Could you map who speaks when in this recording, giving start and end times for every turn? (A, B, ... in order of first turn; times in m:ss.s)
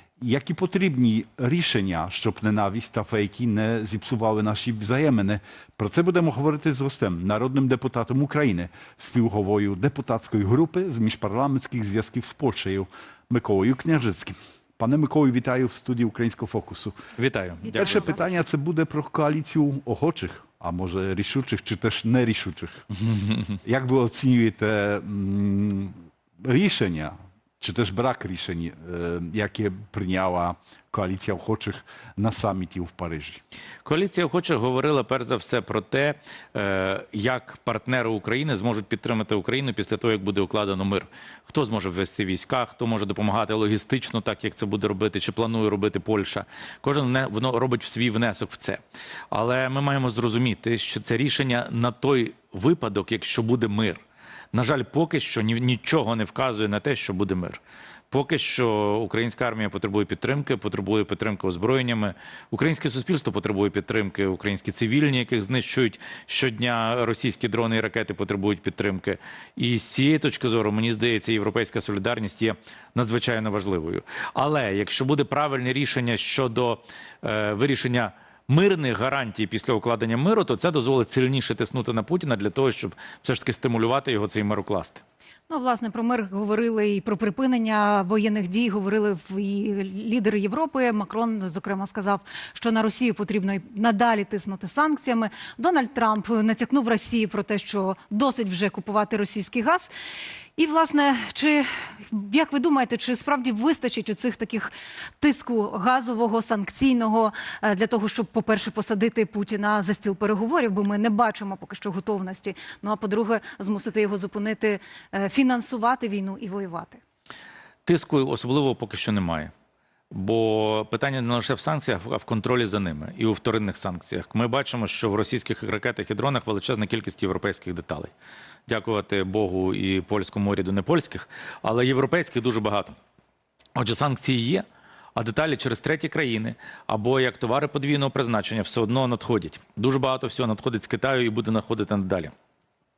0:00.2-0:17.0 A
0:17.2-0:18.0 B
0:17.6-0:18.3 C
0:17.8-0:22.9 A
0:23.0-0:23.6 B
0:23.6-0:33.4 A
0:33.8-0:54.0 B
0:54.5-0:57.6 B
0:58.1-1:25.0 B
1:25.5-1:39.9 C
1:40.6-1:57.0 C
1:57.9-1:59.5 B
2:00.1-2:08.1 B
2:08.7-2:13.0 B
2:13.8-2:14.6 B
2:15.2-2:22.3 B